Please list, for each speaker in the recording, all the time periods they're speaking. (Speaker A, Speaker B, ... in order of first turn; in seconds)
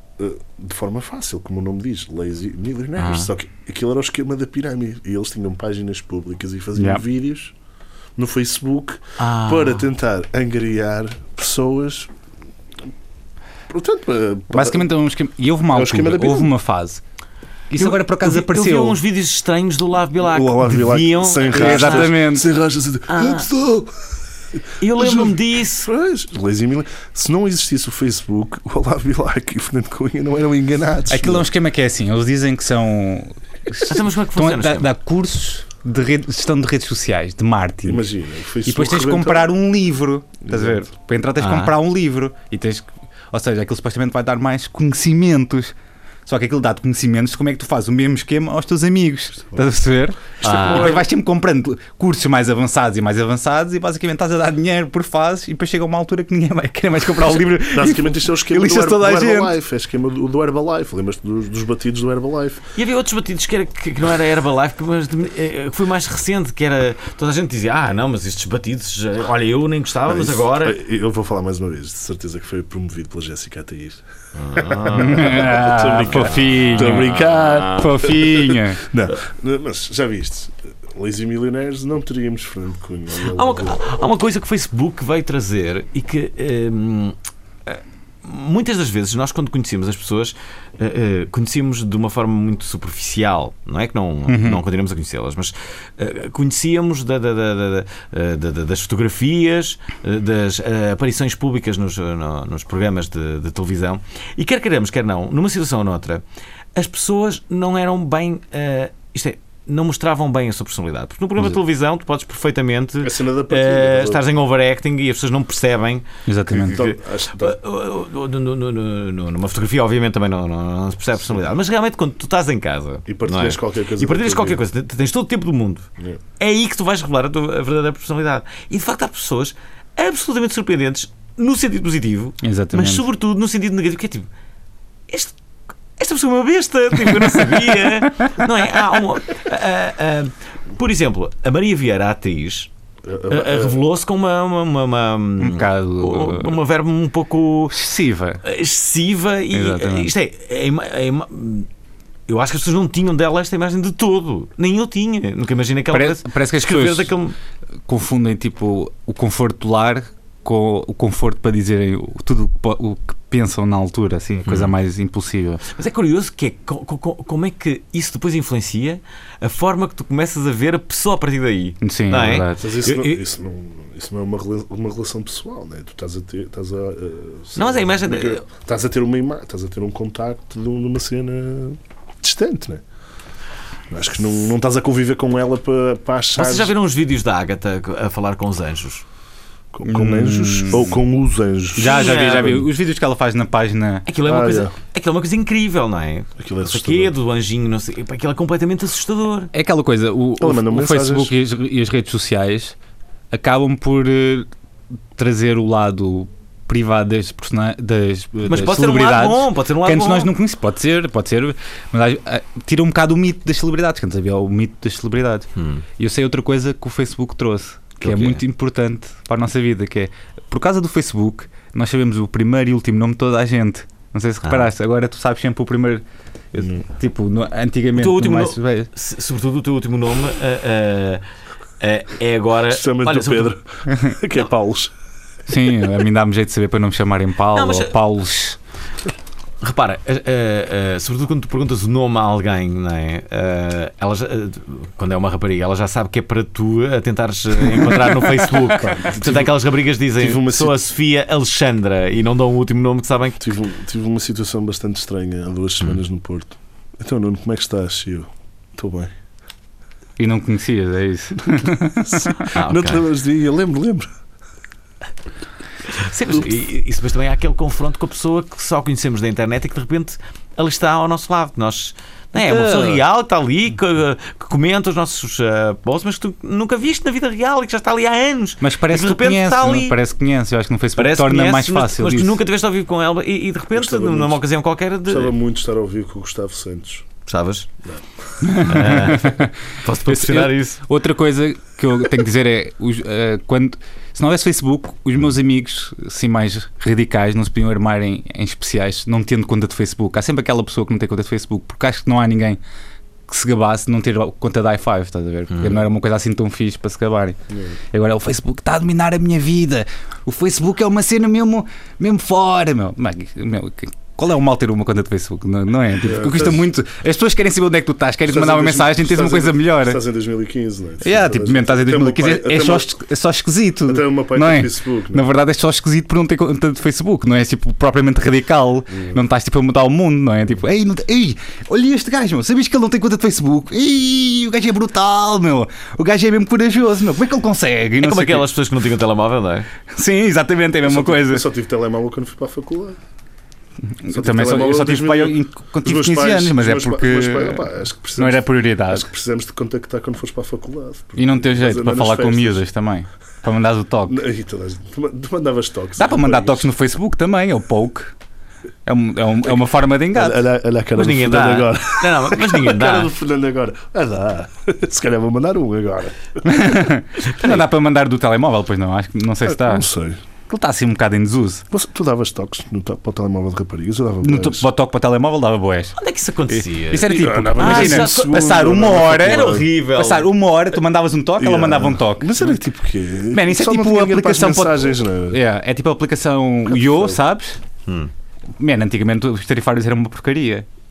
Speaker A: 0.2-7.5, 8.2-12.1, 13.7-14.9, 15.7-16.5, 20.2-24.0, 24.9-31.5, 37.9-39.5, 40.5-40.8, 57.7-62.6, 70.1-74.0, 74.5-83.8, 113.0-114.2, 116.5-117.6, 123.1-124.6, 143.1-143.8, 172.6-182.8, 183.9-186.7, 189.7-192.7, 194.2-194.7, 196.4-197.1, 200.4-201.3, 232.7-234.9, 248.7-249.6, 250.2-250.8, 253.4-259.1, 262.1-264.1, 283.7-284.4, 285.1-287.1, 316.0-316.6, 318.3-322.9, 323.9-325.2, 340.8-343.0, 344.1-352.6, 354.1-356.7, 360.1-366.5, 369.6-370.2, 371.7-374.7, 377.1-379.7, 381.4-385.4, 386.8-387.1
Speaker B: 3.0-3.3, 9.2-9.8, 17.8-22.1, 23.1-23.5, 24.8-25.9, 33.9-34.9, 41.4-41.8, 50.4-51.0, 62.8-70.8, 74.4-77.9, 83.2-106.2, 106.8-125.9, 126.4-134.3, 135.1-135.3, 136.0-142.7, 143.3-147.8, 148.4-151.7, 152.3-157.4, 164.4-164.7, 165.7-173.2, 177.6-178.4, 186.4-189.0, 191.8-192.6, 194.1-199.5, 208.5-210.3, 215.6-215.8, 218.0-218.4, 228.0-231.2, 231.8-233.5, 237.5-237.9, 239.6-253.4, 262.5-263.0, 265.9-280.0, 281.0-285.3, 287.3-287.7, 288.6-290.8, 305.5-305.8, 338.0-339.7, 360.9-363.1, 376.0-378.5, 379.2-380.3, 387.9-388.1
Speaker C: 6.8-7.0, 14.5-17.0, 17.7-19.0, 21.5-22.5, 31.1-38.1, 38.6-45.8, 46.3-59.5, 74.9-78.8, 94.3-94.6, 116.3-116.8, 132.4-133.1, 145.4-146.6, 147.7-148.4, 149.5-150.1, 155.9-157.1, 157.9-165.6, 171.8-172.7, 189.8-191.0, 191.8-194.1, 199.5-202.8, 203.3-204.5, 205.2-228.9, 235.5-238.6, 260.2-262.5, 272.4-273.0, 278.6-282.4, 288.4-302.6, 303.3-307.4, 307.9-320.0, 321.0-338.5, 339.9-341.4, 344.0-347.6, 348.2-349.1, 351.2-354.2, 356.0-358.1, 358.9-360.4, 366.4-369.9, 370.5-371.6, 374.2-376.0, 376.5-382.6, 383.3-387.6, 388.6-390.7